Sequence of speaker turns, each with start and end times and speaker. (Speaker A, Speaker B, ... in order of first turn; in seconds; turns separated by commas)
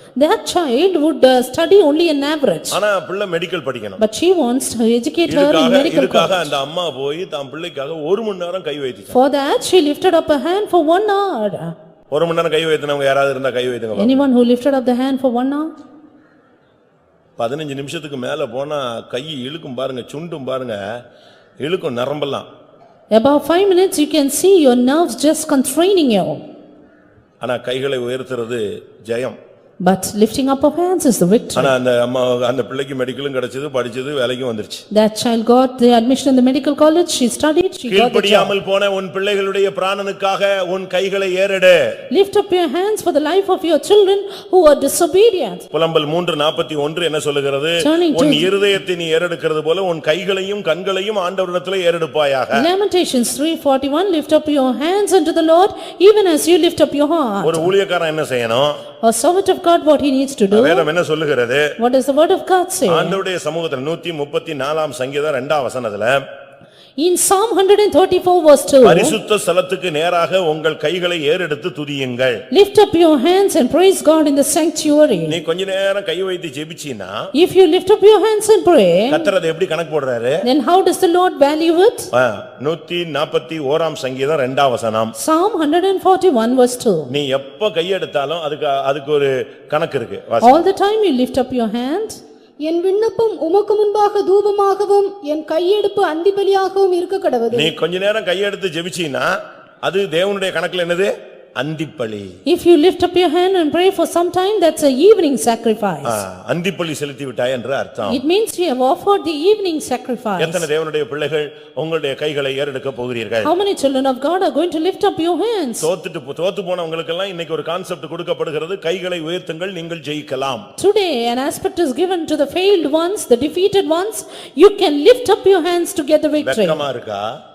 Speaker A: 0.2-2.8, Speaker B: 2.7-4.0, Speaker A: 4.0-6.5, Speaker B: 5.3-9.2, Speaker A: 9.1-11.7, Speaker B: 12.1-14.2, Speaker A: 14.0-15.7, Speaker B: 17.4-20.8, Speaker B: 21.6-22.5, Speaker A: 23.1-26.4, Speaker B: 27.4-29.4, Speaker A: 29.8-31.8, Speaker B: 31.6-34.8, Speaker A: 34.9-38.5, Speaker B: 37.9-41.8, Speaker A: 42.1-45.6, Speaker B: 45.7-52.7, Speaker A: 47.8-48.6, Speaker A: 52.5-57.7, Speaker B: 57.4-58.8, Speaker A: 59.0-60.9, Speaker B: 60.5-61.7, Speaker A: 61.8-63.2, Speaker B: 62.9-66.2, Speaker A: 67.0-69.2, Speaker B: 68.8-72.4, Speaker A: 72.5-75.4, Speaker B: 75.3-77.3, Speaker A: 77.3-79.3, Speaker B: 79.1-80.5, Speaker A: 80.4-82.1, Speaker B: 82.1-85.1, Speaker A: 85.2-87.1, Speaker B: 87.1-90.6, Speaker A: 90.4-92.2, Speaker C: 92.6-97.7, Speaker B: 97.5-99.3, Speaker B: 99.8-102.4, Speaker A: 102.5-106.2, Speaker B: 106.0-108.2, Speaker A: 108.1-110.7, Speaker B: 110.4-113.5, Speaker A: 113.4-115.9, Speaker B: 115.8-120.7, Speaker A: 120.8-126.9, Speaker B: 126.4-127.3